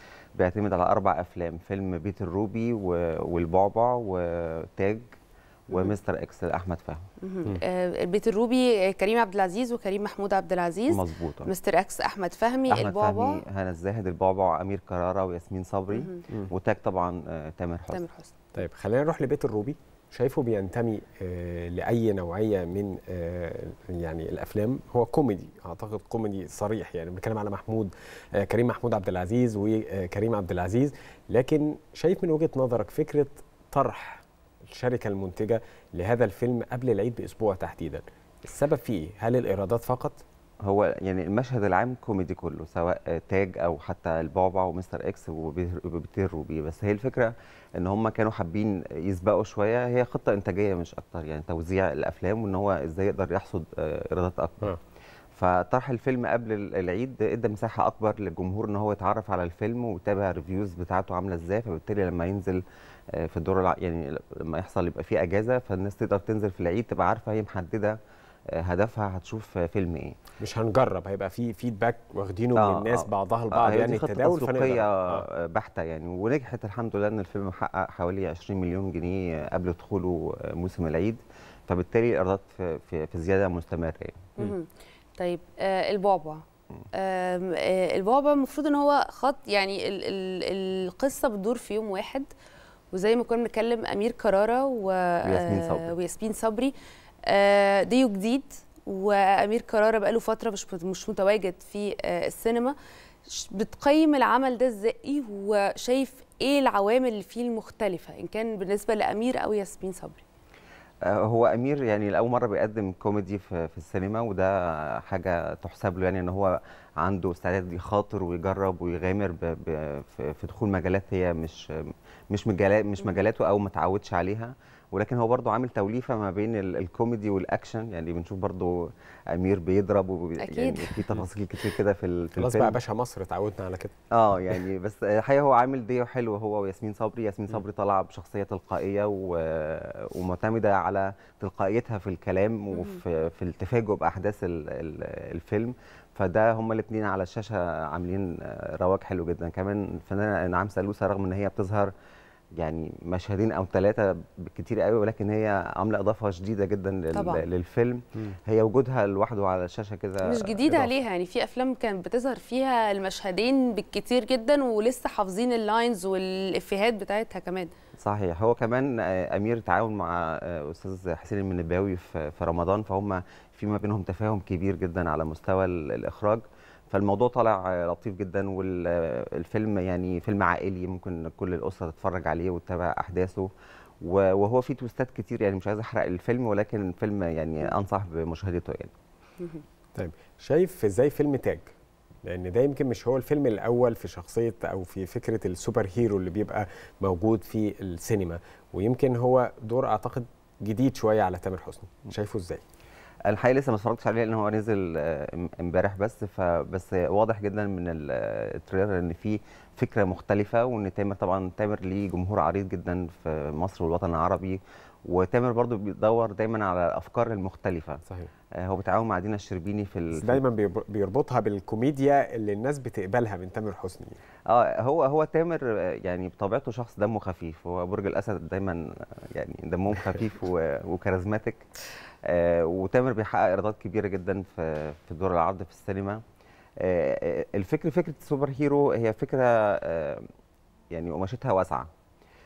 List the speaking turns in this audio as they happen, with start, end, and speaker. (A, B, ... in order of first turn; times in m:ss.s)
0:00.4-0:05.0 A
0:05.7-0:07.0 A
0:07.2-0:13.4 B
0:10.9-0:11.5 A
0:12.7-0:18.0 A
0:15.9-0:16.2 B
0:17.9-0:18.3 B
0:18.5-0:40.2 C
0:40.6-0:54.8 A
0:55.4-1:02.6 A
1:03.1-1:08.0 A
1:08.6-1:10.2 A
1:10.4-1:15.2 C
1:12.6-1:24.3 A
1:24.4-1:32.3 B
1:32.9-1:36.7 B
1:35.2-1:35.9 A
1:37.2-1:42.7 B
1:43.3-1:50.2 B
1:51.1-2:12.8 A
2:10.4-2:11.0 B
2:12.4-2:13.9 C
2:14.1-2:31.9 A
2:22.7-2:23.0 B
2:32.6-2:40.9 A
2:37.1-2:37.4 B
2:40.2-2:47.7 B
2:48.0-3:03.5 A
3:04.0-3:08.9 A
3:09.9-3:11.7 C
3:12.2-3:22.6 C
3:23.3-3:38.0 A
3:38.6-3:40.4 A
3:40.1-3:44.2 C
3:44.5-3:51.6 A
3:52.2-3:56.2 A
3:56.8-4:00.2 A
4:00.9-4:01.9 A